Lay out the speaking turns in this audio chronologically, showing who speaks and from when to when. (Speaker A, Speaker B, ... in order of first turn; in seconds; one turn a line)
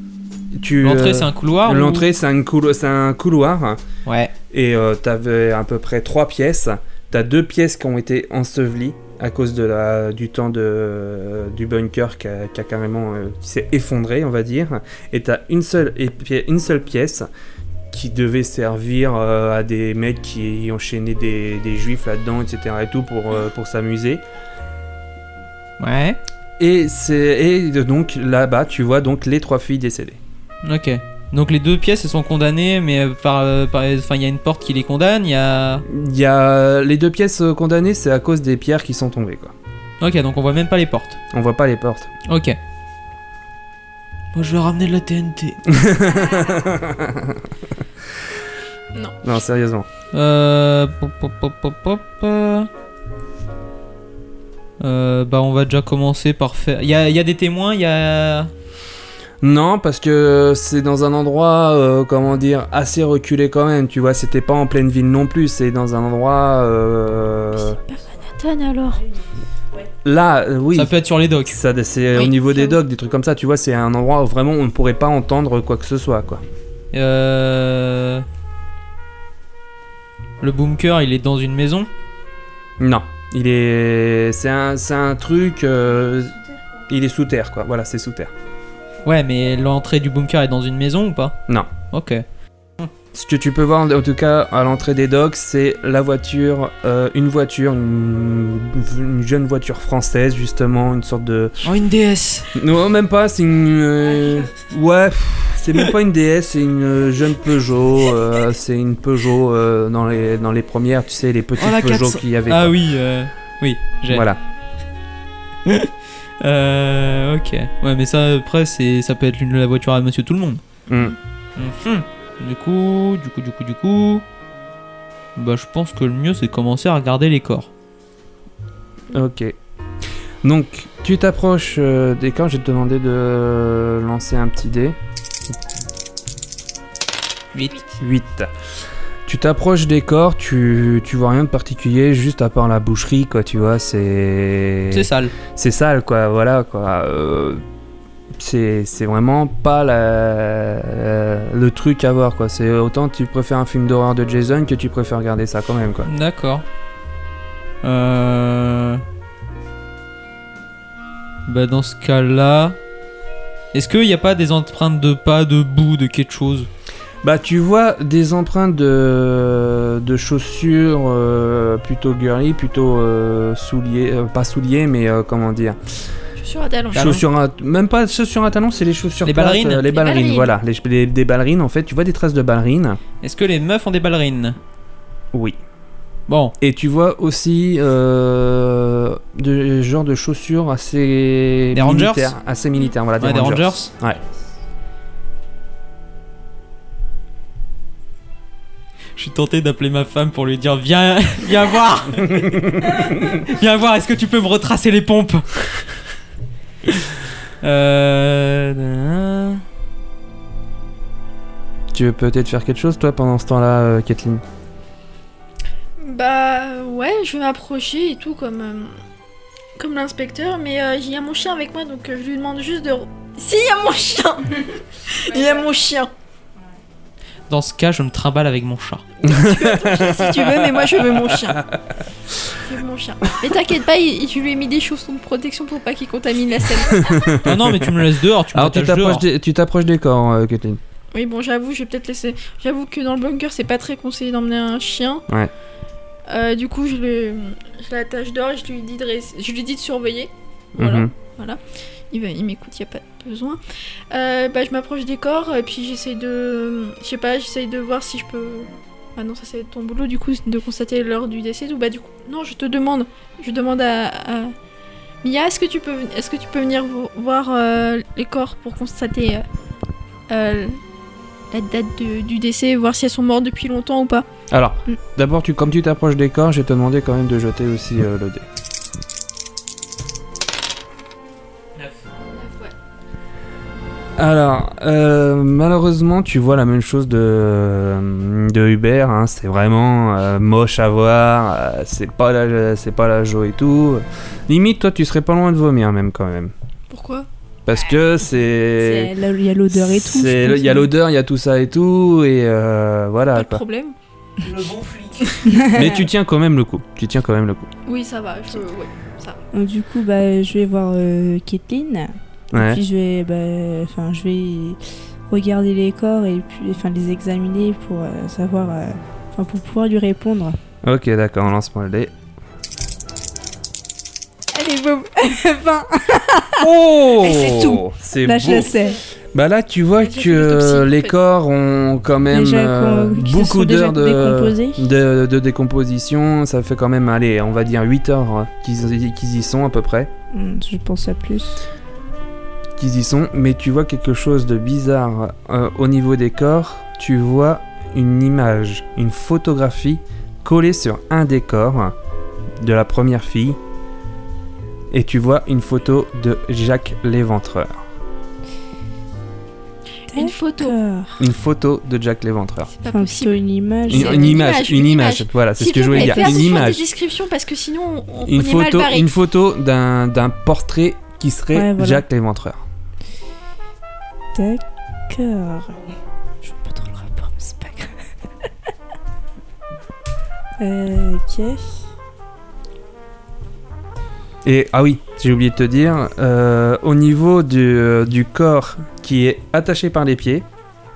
Speaker A: 0.5-3.8
Speaker B: 0.8-2.0
Speaker B: 4.0-4.3
Speaker A: 4.5-17.3
Speaker A: 17.9-24.2
Speaker B: 25.8-26.2
Speaker A: 26.6-30.2
Speaker B: 30.6-35.8
Speaker A: 35.9-39.5
Speaker B: 40.0-41.2
Speaker A: 41.3-42.1
Speaker B: 42.3-42.6
Speaker B: 44.3-45.7
Speaker A: 45.6-47.4
Speaker C: 48.9-49.2
Speaker A: 49.2-49.9
Speaker B: 50.1-52.7
Speaker B: 54.8-58.5
Speaker A: 59.4-67.8
Speaker C: 67.5-69.0
Speaker A: 70.0-70.9
Speaker B: 70.7-71.6
Speaker A: 71.5-76.4
Speaker C: 72.1-72.8
Speaker B: 76.9-78.2
Speaker B: 80.4-81.9
Speaker A: 82.8-86.3
Speaker A: 86.9-88.3
Speaker B: 89.0-91.4
Speaker B: 91.9-92.2
Speaker A: 93.1-101.6
Speaker B: 101.6-102.5
Speaker A: 102.5-112.7
Speaker B: 111.6-114.3
Speaker A: 114.1-114.4
Speaker B: 115.7-115.9
Speaker B: 116.4-120.6
Speaker A: 120.9-121.1
Speaker B: 121.5-124.2
Speaker B: 125.3-127.7
Speaker A: 129.1-129.6
Speaker A: 130.4-134.9
Speaker A: 138.0-138.5
Speaker A: 139.3-147.6
Speaker B: 144.9-145.3
Speaker A: 148.4-156.1
Speaker B: 156.1-156.6
Speaker B: 157.8-159.0
Speaker B: 161.5-162.8
Speaker B: 163.7-166.7
Speaker A: 167.2-175.8
Speaker C: 176.4-177.1
Speaker B: 176.9-177.2
Speaker A: 176.9-183.0
Speaker B: 179.2-179.9
Speaker C: 179.9-180.5
Speaker B: 183.2-184.6
Speaker B: 186.3-186.5
Speaker A: 186.6-194.2
Speaker B: 191.7-192.3
Speaker B: 193.2-193.9
Speaker B: 199.2-205.6
Speaker A: 202.2-203.4
Speaker B: 207.6-209.6
Speaker A: 211.9-214.4
Speaker C: 216.0-219.0
Speaker C: 219.8-226.1
Speaker B: 227.5-229.0
Speaker C: 229.2-231.6
Speaker A: 229.2-231.8
Speaker C: 232.6-237.4
Speaker A: 236.9-237.9
Speaker B: 237.4-239.2
Speaker A: 238.5-240.8
Speaker C: 241.1-245.2
Speaker C: 246.3-264.5
Speaker A: 250.8-251.1
Speaker C: 265.2-269.4
Speaker C: 270.3-270.8
Speaker C: 271.5-274.2
Speaker A: 274.5-278.4
Speaker C: 282.3-282.7
Speaker A: 284.2-296.5
Speaker C: 296.9-297.3
Speaker A: 297.6-299.1
Speaker D: 298.8-300.9
Speaker A: 299.7-303.6
Speaker C: 303.3-303.9
Speaker B: 304.4-305.3
Speaker D: 305.4-306.1
Speaker A: 305.7-307.7
Speaker C: 307.9-309.4
Speaker D: 309.5-320.6
Speaker A: 312.5-312.8
Speaker A: 320.8-322.1
Speaker D: 324.5-329.0
Speaker A: 326.6-328.7
Speaker A: 329.3-340.1
Speaker C: 330.0-331.1
Speaker D: 332.3-334.9
Speaker D: 340.3-341.6
Speaker A: 342.8-351.9
Speaker A: 352.6-353.6
Speaker A: 354.9-357.8
Speaker D: 360.1-361.2
Speaker C: 360.1-360.8
Speaker A: 361.2-362.7
Speaker C: 362.7-369.1
Speaker D: 362.9-364.4
Speaker A: 363.9-366.9
Speaker D: 365.9-366.6
Speaker A: 368.3-372.6
Speaker D: 371.5-372.0
Speaker D: 374.3-375.8
Speaker D: 376.4-377.9
Speaker D: 380.6-381.8
Speaker A: 384.4-390.4